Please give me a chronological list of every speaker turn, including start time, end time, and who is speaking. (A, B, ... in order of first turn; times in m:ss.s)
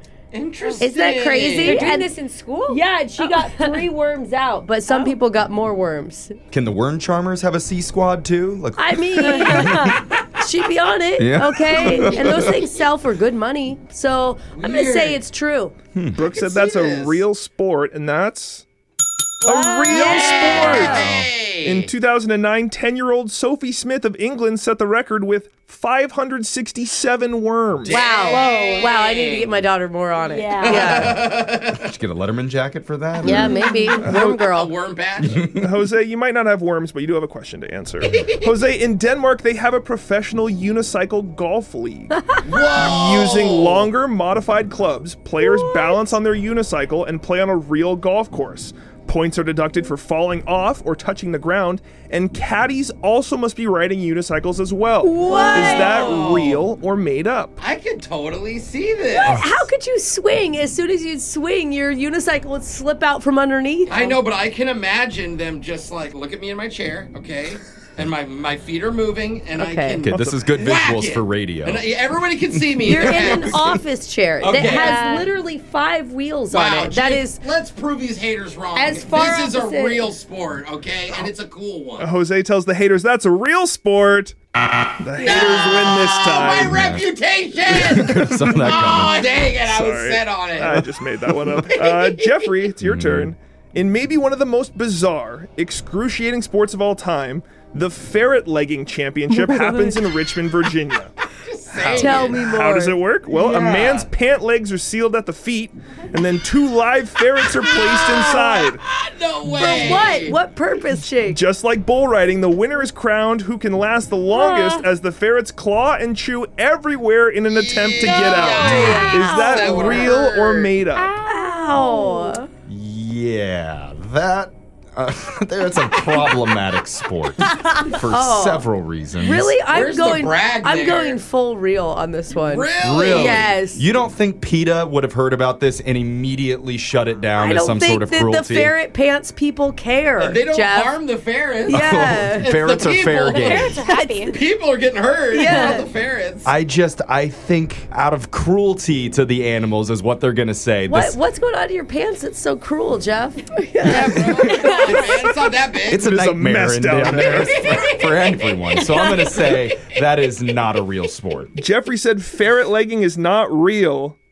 0:00.3-0:01.8 A
0:00.6-0:00.9 B
0:00.8-0:02.1 C
0:01.6-0:03.8 B
0:02.7-0:06.4 C
0:04.9-0:05.1 B
0:06.5-0:09.9 D
0:08.8-0:15.7 C
0:09.5-0:10.0 B
0:11.2-0:12.6 D
0:11.9-0:12.5 A
0:14.5-0:15.2 A
0:16.1-0:18.6 E
0:16.2-0:17.2 A
0:19.4-0:21.1 E
0:19.4-0:21.0 B
0:19.9-0:21.1 C
0:20.0-0:21.9 A
0:21.0-0:21.3 D
0:21.6-0:28.0 E
0:27.8-0:29.6 A
0:27.9-0:31.3 C
0:28.2-0:28.9 B
0:30.2-0:31.1 B
0:30.6-0:31.9 A
0:31.7-0:33.6 D
0:33.2-0:34.8 C
0:33.3-0:34.3 E
0:33.4-0:34.0 B
0:34.0-0:35.6 A
0:35.5-0:57.6 E
0:38.0-0:38.5 A
0:42.4-0:43.9 A
0:45.4-0:46.0 C
0:55.0-0:56.1 C
0:55.2-0:56.1 B
0:55.9-0:56.6 A
0:57.6-0:59.4 A
0:59.1-1:04.2 C
0:59.2-0:59.6 D
1:03.9-1:13.7 A
1:09.6-1:10.1 C
1:10.0-1:11.8 D
1:12.5-1:13.6 D
1:12.8-1:17.4 C
1:14.4-1:15.0 A
1:14.5-1:15.3 B
1:16.5-1:22.1 A
1:18.7-1:20.1 C
1:22.0-1:24.4 E
1:25.0-1:26.7 E
1:25.2-1:25.8 C
1:25.2-1:32.7 A
1:26.6-1:27.1 D
1:27.7-1:29.3 D
1:28.1-1:28.5 E
1:29.1-1:41.1 E
1:32.8-1:33.3 D
1:39.3-1:40.0 C
1:41.3-1:42.4 A
1:41.7-1:48.8 E
1:41.8-1:43.0 C
1:43.3-1:44.0 A
1:47.9-1:48.7 C
1:48.8-1:50.4 A
1:49.5-1:51.4 C
1:51.1-2:01.1 E
1:54.3-1:54.7 B
1:57.5-2:00.8 A
1:58.4-1:59.9 B
1:58.6-2:00.1 C
2:01.0-2:02.4 B
2:01.2-2:02.5 C
2:02.7-2:09.6 D
2:07.4-2:13.8 C
2:09.6-2:11.2 A
2:12.3-2:13.5 A
2:12.8-2:18.7 D
2:17.4-2:21.0 C
2:20.2-2:26.5 A
2:21.7-2:22.6 C
2:21.7-2:23.8 D
2:23.2-2:24.4 B
2:23.8-2:24.2 C
2:25.3-2:25.8 B
2:25.3-2:25.9 C
2:26.4-2:31.2 D
2:30.9-2:35.1 C
2:33.8-2:36.0 A
2:34.5-2:35.1 B
2:35.9-2:41.5 D
2:35.9-2:37.6 E
2:37.4-2:38.0 A
2:38.8-2:39.5 B
2:41.6-2:44.2 E